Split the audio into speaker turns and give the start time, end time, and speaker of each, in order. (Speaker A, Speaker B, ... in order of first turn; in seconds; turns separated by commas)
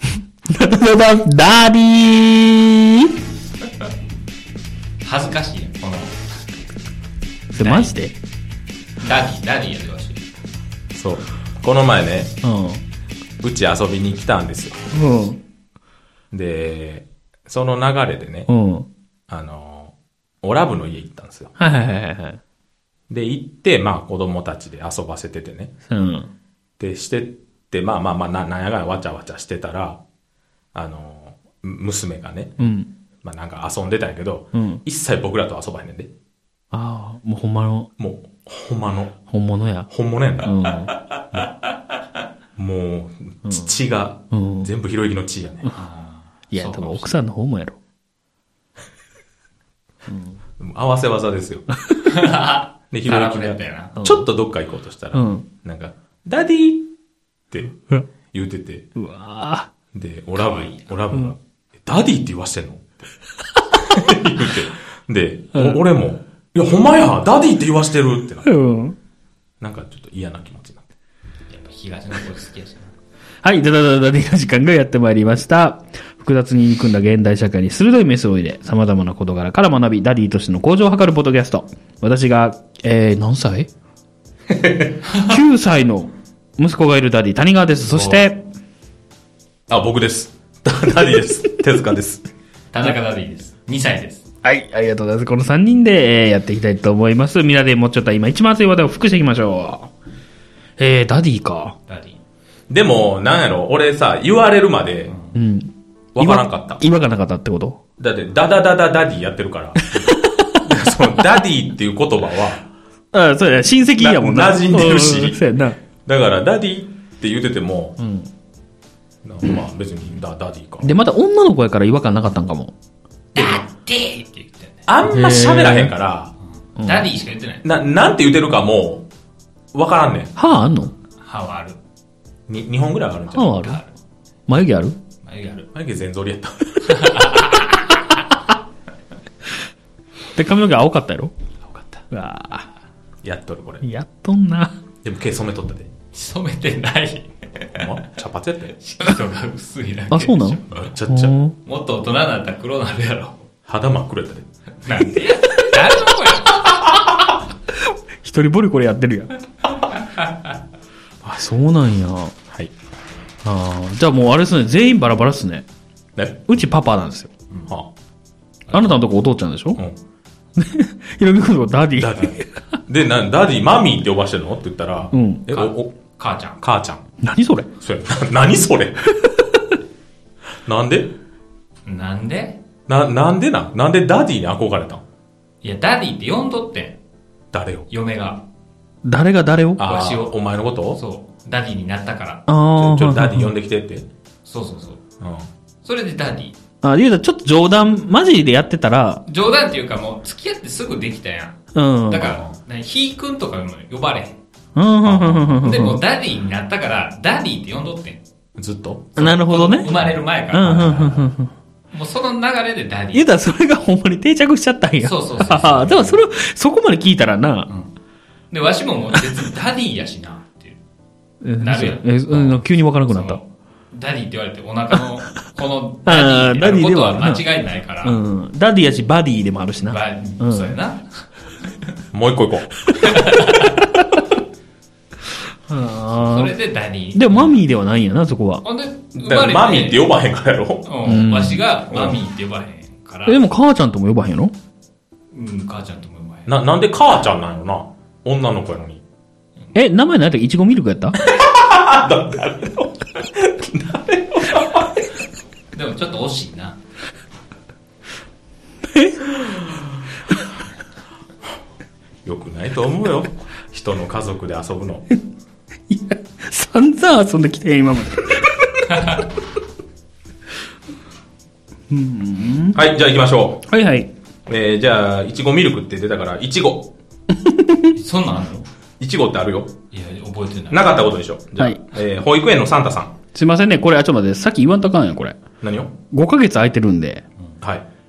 Speaker A: 0.5-3.1, Speaker B: 5.0-6.6, Speaker A: 7.5-8.1, Speaker B: 7.6-7.9, Speaker B: 9.0-10.2, Speaker C: 10.9-12.3, Speaker A: 12.4-12.8, Speaker C: 13.4-14.8, Speaker A: 14.9-15.4, Speaker C: 16.3-18.5, Speaker A: 18.5-18.9, Speaker C: 19.3-21.5, Speaker A: 21.6-22.4, Speaker C: 23.1-25.7, Speaker A: 25.9-26.3, Speaker C: 26.8-30.0, Speaker C: 30.7-32.7, Speaker A: 32.6-32.9, Speaker C: 33.2-36.1, Speaker A: 34.5-34.8, Speaker A: 36.7-37.9, Speaker C: 38.0-39.2, Speaker A: 39.3-39.9, Speaker C: 39.9-40.6, Speaker A: 40.4-40.9, Speaker C: 42.6-45.7, Speaker A: 43.5-43.7, Speaker A: 44.3-44.7, Speaker B: 45.7-47.1, Speaker A: 46.5-47.8, Speaker A: 50.1-50.3, Speaker C: 50.6-51.7, Speaker B: 52.0-54.0, Speaker C: 52.9-56.9, Speaker A: 54.0-54.3, Speaker A: 55.1-55.5, Speaker C: 57.5-58.9, Speaker A: 59.0-59.7, Speaker C: 60.0-63.1, Speaker B: 60.4-60.9, Speaker C: 63.8-68.5, Speaker A: 65.5-65.8, Speaker A: 68.5-69.0, Speaker C: 69.6-70.9, Speaker B: 71.5-72.9, Speaker A: 73.4-83.7, Speaker C: 84.5-85.0, Speaker A: 85.2-88.5, Speaker B: 87.9-88.3, Speaker C: 89.7-92.2, Speaker B: 92.7-94.3, Speaker A: 94.4-99.9, Speaker A: 100.8-101.8, Speaker B: 101.9-102.2, Speaker C: 102.7-105.2, Speaker B: 105.1-105.4, Speaker A: 105.3-107.8, Speaker C: 106.2-106.8, Speaker C: 108.0-109.8, Speaker A: 109.8-111.0, Speaker C: 110.6-112.7, Speaker A: 113.1-115.8, Speaker C: 114.0-115.5, Speaker C: 116.0-118.0, Speaker A: 118.0-118.3, Speaker C: 119.2-120.9, Speaker A: 120.8-122.7, Speaker C: 123.3-123.6, Speaker B: 123.3-124.8, Speaker C: 124.9-126.3, Speaker A: 125.0-125.9, Speaker B: 126.8-127.6, Speaker A: 126.8-127.1, Speaker C: 127.6-129.1, Speaker C: 129.7-130.3, Speaker A: 130.4-130.9, Speaker B: 131.2-131.8, Speaker C: 132.5-133.6, Speaker A: 133.3-133.8, Speaker B: 133.5-133.9, Speaker A: 134.5-135.0, Speaker B: 135.2-135.7, Speaker C: 135.7-137.3, Speaker B: 136.8-138.0, Speaker A: 140.3-141.3, Speaker A: 142.1-142.7, Speaker C: 143.2-143.9, Speaker A: 143.8-144.8, Speaker C: 145.0-145.9, Speaker B: 146.1-147.9, Speaker C: 147.7-148.8, Speaker B: 148.8-150.9, Speaker A: 150.1-151.6, Speaker C: 150.7-151.3, Speaker B: 151.7-153.4, Speaker C: 153.7-154.5, Speaker B: 154.8-157.1, Speaker A: 157.7-159.4, Speaker B: 160.1-160.3, Speaker A: 161.2-162.3, Speaker A: 163.4-165.7, Speaker C: 166.2-166.4, Speaker A: 166.5-167.3, Speaker B: 168.7-169.0, Speaker A: 168.7-169.8, Speaker A: 170.6-172.6, Speaker C: 172.0-176.0, Speaker A: 175.1-175.5, Speaker B: 175.5-176.6, Speaker C: 176.6-177.0, Speaker A: 177.2-177.7, Speaker C: 177.8-179.1, Speaker A: 179.1-179.7, Speaker C: 180.7-181.1, Speaker B: 181.9-182.6, Speaker C: 182.9-185.0, Speaker B: 185.6-187.0, Speaker C: 187.5-187.9, Speaker B: 187.9-188.4, Speaker A: 189.1-189.8, Speaker C: 189.8-191.0, Speaker B: 189.8-190.4, Speaker B: 190.9-192.4, Speaker A: 192.5-193.5, Speaker C: 192.8-194.1, Speaker B: 194.4-195.0, Speaker C: 195.2-195.5, Speaker B: 195.8-196.6, Speaker A: 196.8-199.2, Speaker B: 199.3-204.4, Speaker A: 201.7-202.4, Speaker A: 204.8-206.0, Speaker C: 205.1-205.7, Speaker B: 205.6-208.2, Speaker C: 208.6-209.1, Speaker B: 209.2-211.2, Speaker A: 209.2-209.9, Speaker A: 210.5-211.5, Speaker B: 211.9-213.3, Speaker A: 213.1-217.7, Speaker B: 215.0-216.2, Speaker B: 218.5-220.8, Speaker A: 221.4-223.4, Speaker B: 221.6-228.2, Speaker A: 226.1-227.4, Speaker A: 228.0-230.8, Speaker B: 229.9-231.1, Speaker C: 232.1-232.7, Speaker B: 233.0-233.8, Speaker A: 233.8-234.2, Speaker A: 235.7-236.5, Speaker B: 236.1-237.6, Speaker A: 237.1-238.7, Speaker B: 238.6-240.1, Speaker C: 239.2-240.9, Speaker B: 240.9-243.4, Speaker A: 241.1-241.6, Speaker C: 241.9-242.2, Speaker A: 243.3-244.5, Speaker B: 245.3-246.5, Speaker C: 246.5-249.0, Speaker A: 249.7-251.2, Speaker C: 251.2-255.1, Speaker B: 255.7-256.8, Speaker A: 258.8-259.5, Speaker C: 262.2-265.1, Speaker A: 265.9-269.2, Speaker B: 268.9-269.2, Speaker A: 271.9-272.8, Speaker C: 272.7-273.6, Speaker A: 273.7-274.1, Speaker C: 274.5-276.9, Speaker A: 277.3-278.0, Speaker B: 277.9-278.7, Speaker C: 279.0-279.7, Speaker B: 279.9-280.9, Speaker C: 280.7-283.1, Speaker A: 283.3-285.4, Speaker C: 285.6-285.9, Speaker A: 286.1-287.2